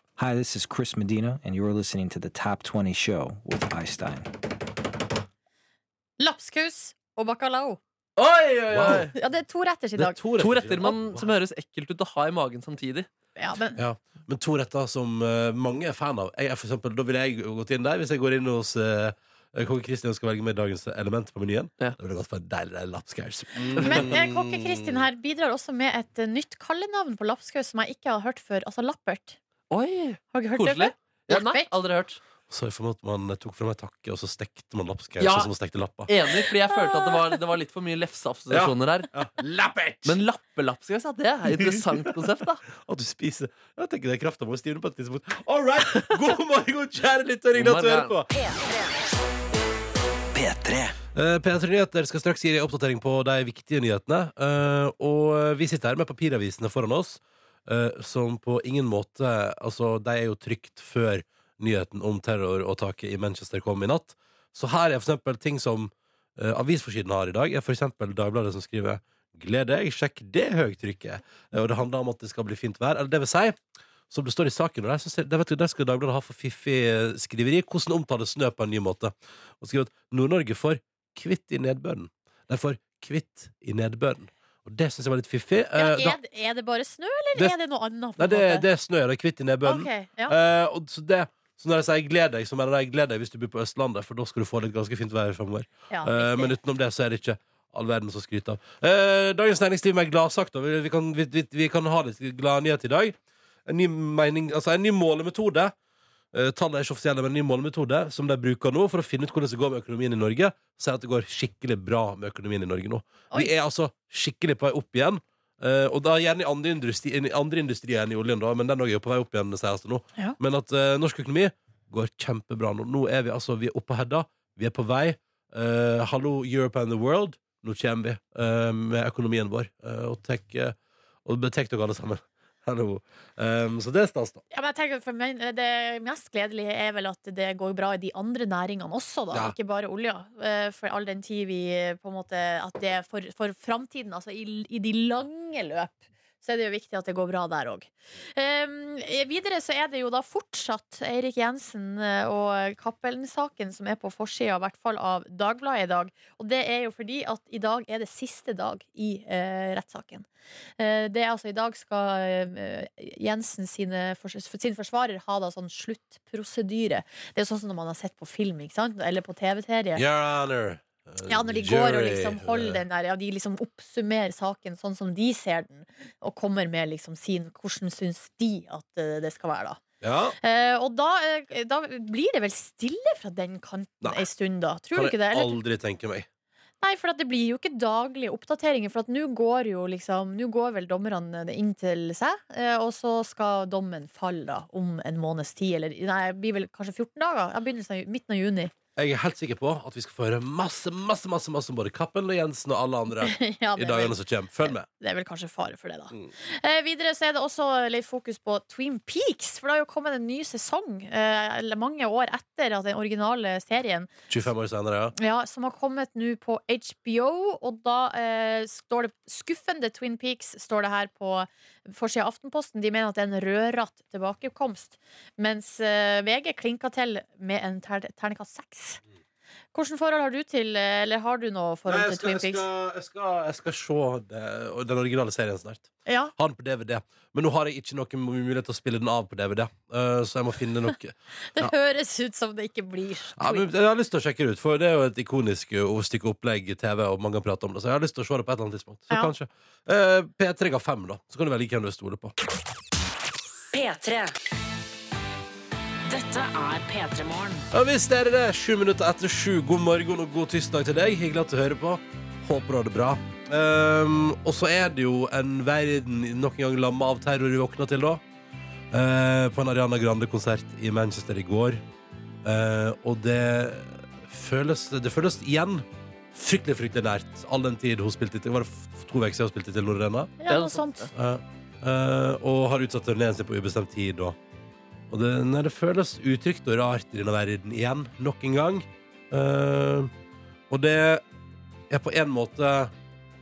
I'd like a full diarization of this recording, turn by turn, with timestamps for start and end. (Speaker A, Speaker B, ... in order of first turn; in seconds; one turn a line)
Speaker A: 0.2-4.3
Speaker B: 6.2-7.8
Speaker C: 8.2-9.1
Speaker D: 8.7-9.1
Speaker B: 8.8-10.2
Speaker D: 10.0-11.3
Speaker C: 10.4-13.1
Speaker B: 13.4-13.8
Speaker D: 13.8-25.0
Speaker C: 23.8-24.1
Speaker B: 23.8-29.4
Speaker C: 29.7-32.2
Speaker B: 30.3-31.7
Speaker D: 32.5-36.1
Speaker C: 35.2-35.5
Speaker C: 36.1-39.1
Speaker D: 38.5-40.2
Speaker C: 40.0-42.6
Speaker D: 41.5-48.3
Speaker C: 47.5-48.1
Speaker A: 50.4-50.9
Speaker D: 51.1-73.6
Speaker D: 74.1-86.2
Speaker B: 85.8-88.7
Speaker D: 88.2-103.1
Speaker B: 89.6-90.3
Speaker B: 95.9-96.5
Speaker D: 103.7-105.7
Speaker D: 106.3-134.4
Speaker B: 134.5-160.2
Speaker B: 160.8-170.0
Speaker D: 169.9-172.8
Speaker B: 171.3-179.8
Speaker D: 180.0-180.4
Speaker B: 180.4-185.6
Speaker D: 184.9-186.3
Speaker B: 186.8-198.7
Speaker D: 198.9-204.8
Speaker B: 203.2-214.1
Speaker D: 214.3-215.1
Speaker B: 215.2-229.0
Speaker B: 229.7-232.6
Speaker D: 231.9-241.7
Speaker B: 236.1-236.3
Speaker B: 241.5-243.7
Speaker D: 243.4-252.3
Speaker E: 253.7-254.3
Speaker E: 256.1-257.6
Speaker D: 257.7-268.2
Speaker D: 268.9-271.8
Speaker D: 272.4-280.3
Speaker B: 280.4-281.1
Speaker C: 280.5-281.1
Speaker D: 281.1-284.4
Speaker D: 285.1-290.1
Speaker D: 290.7-291.2
Speaker D: 291.9-292.9